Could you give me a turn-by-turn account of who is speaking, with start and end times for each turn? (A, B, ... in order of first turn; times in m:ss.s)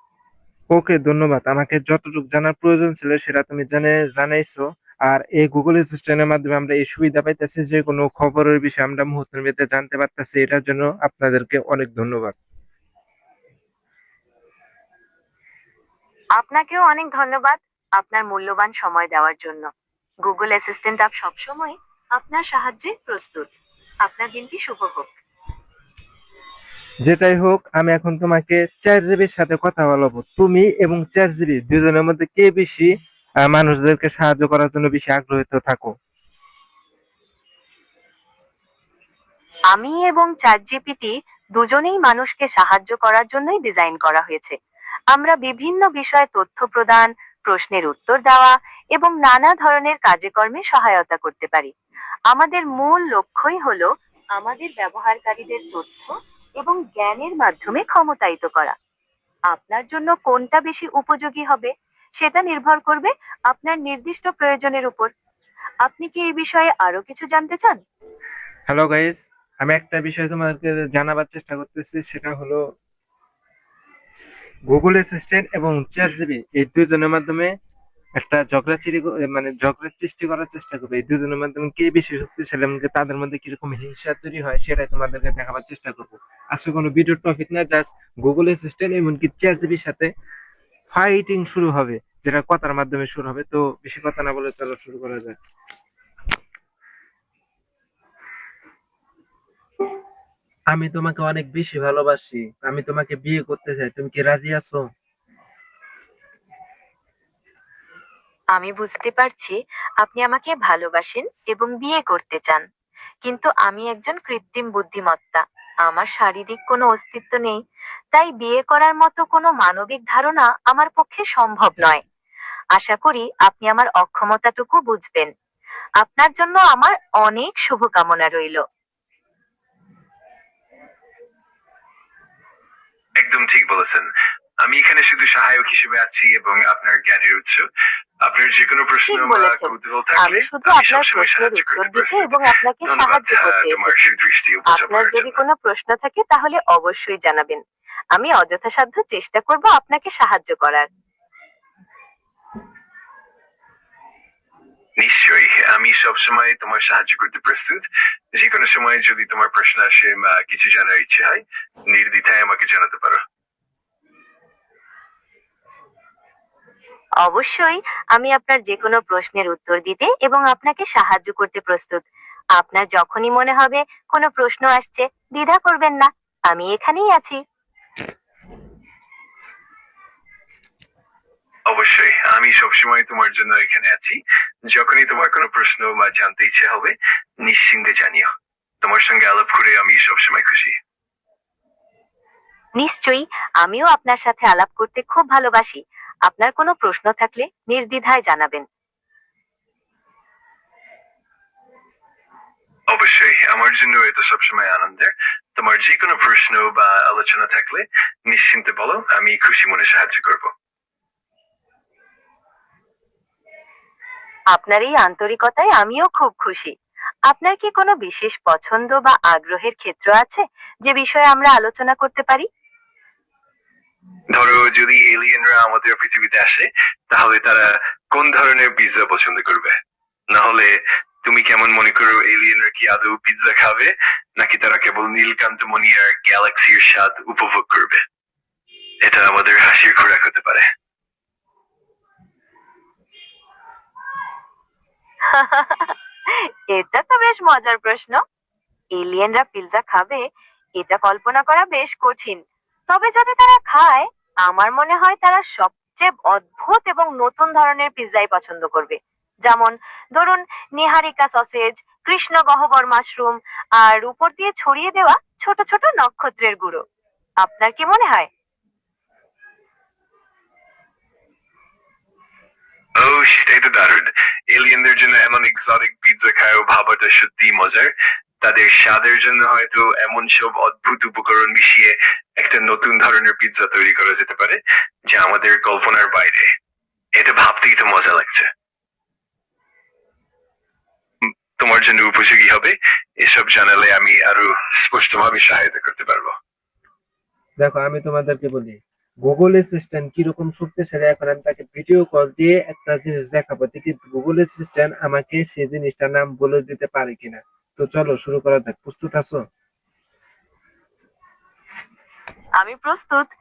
0:00.7-0:12.4 A
0:16.4-0:19.7 B
0:20.2-0:23.5 B
0:24.0-0:25.1 B
0:27.0-0:32.9 A
0:33.4-0:35.9 A
0:39.7-0:44.6 B
0:45.1-0:51.7 B
0:52.3-0:58.7 B
0:59.5-1:05.1 B
1:05.8-1:07.8 B
1:08.7-1:12.6 A
1:14.7-1:17.5 A
1:18.2-1:30.1 A
1:30.9-1:35.4 A
1:40.7-1:44.8 A
1:48.5-1:52.6 B
1:53.2-1:57.6 B
1:58.1-2:02.0 B
2:02.7-2:05.3 B
2:06.0-2:08.6 B
2:13.2-2:14.1 C
2:14.6-2:17.7 C
2:18.2-2:25.4 C
2:19.1-2:24.1 B
2:24.7-2:27.6 B
2:28.1-2:30.9 B
2:35.0-2:43.2 C
2:47.2-2:52.0 B
2:52.6-2:57.4 B
3:01.7-3:08.3 C
3:08.8-3:10.8 C
3:12.8-3:18.6 B
3:22.9-3:30.5 C
3:34.5-3:36.7 B
3:37.3-3:42.5 B
3:44.3-3:49.8 C
3:50.3-3:58.0 C
3:59.0-4:00.7 C
4:05.3-4:08.2 B
4:08.9-4:10.2 B
4:10.8-4:26.8 B
4:27.4-4:28.3 B
4:33.0-4:46.5 C
4:47.2-4:48.5 C
4:51.6-4:56.4 C
4:57.6-5:09.4 A
5:12.6-5:13.2 B